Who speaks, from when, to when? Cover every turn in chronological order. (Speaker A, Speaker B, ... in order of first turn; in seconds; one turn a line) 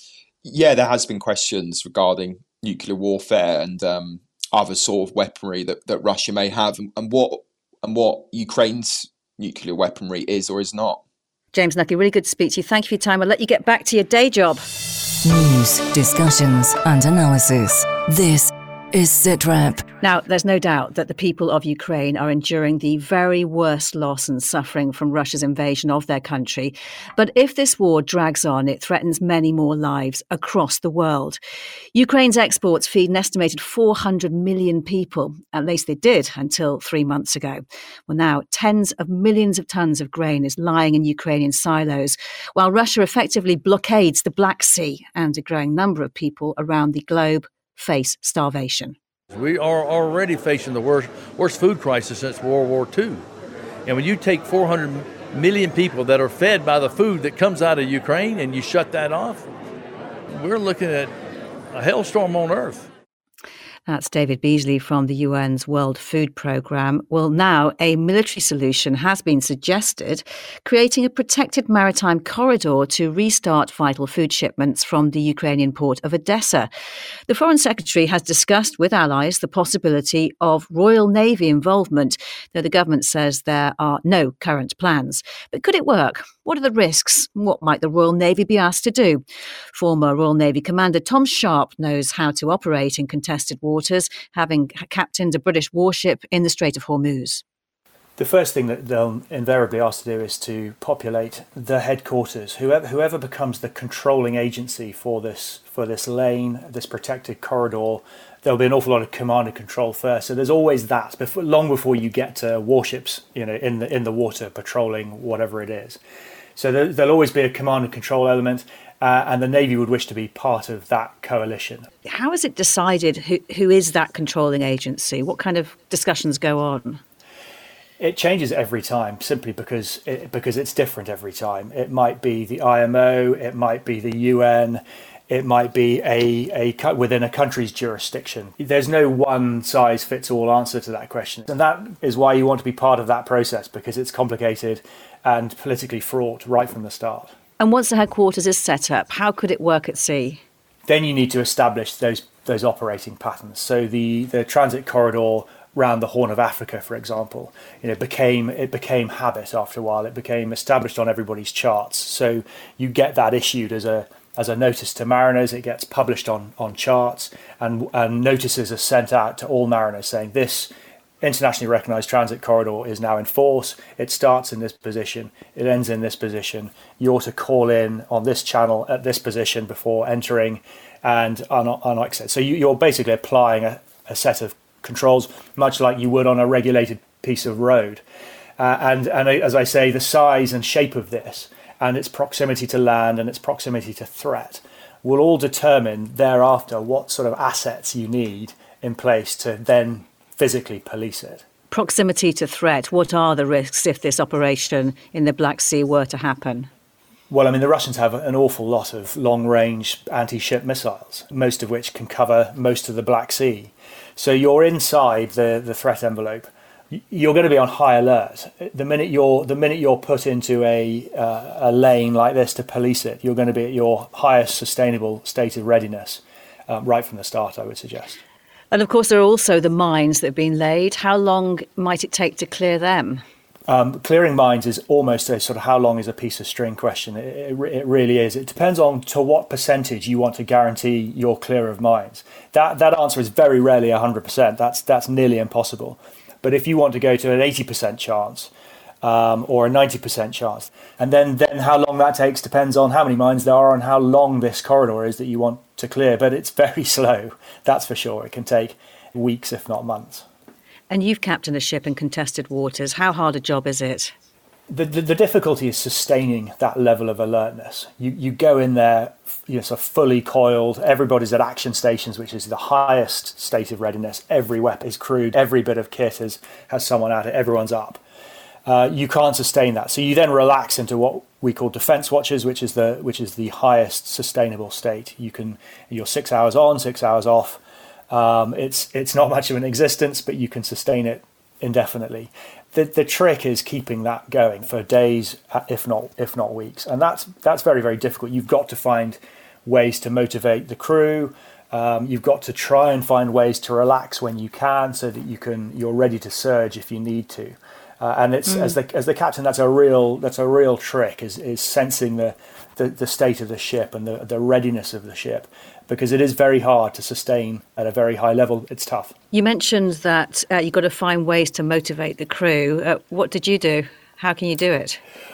Speaker A: 0.4-11.0
Speaker B: 11.5-14.7
Speaker C: 15.2-19.8
Speaker B: 20.0-31.4
Speaker B: 31.9-49.0
Speaker D: 49.3-53.2
Speaker D: 53.9-59.4
Speaker D: 60.3-61.1
Speaker D: 61.7-62.9
Speaker B: 63.9-76.7
Speaker B: 77.3-89.2
Speaker B: 89.7-97.4
Speaker E: 98.2-116.0
Speaker E: 116.6-121.9
Speaker B: 122.0-127.0
Speaker E: 128.0-147.3
Speaker B: 147.6-150.4
Speaker E: 150.9-188.0
Speaker E: 188.6-201.4
Speaker B: 201.7-206.7
Speaker E: 207.3-228.2
Speaker B: 228.7-233.2
Speaker E: 233.7-248.5
Speaker E: 249.0-260.2
Speaker B: 260.9-264.1
Speaker E: 264.7-278.0
Speaker E: 278.7-319.1
Speaker B: 308.5-308.7
Speaker B: 319.3-325.0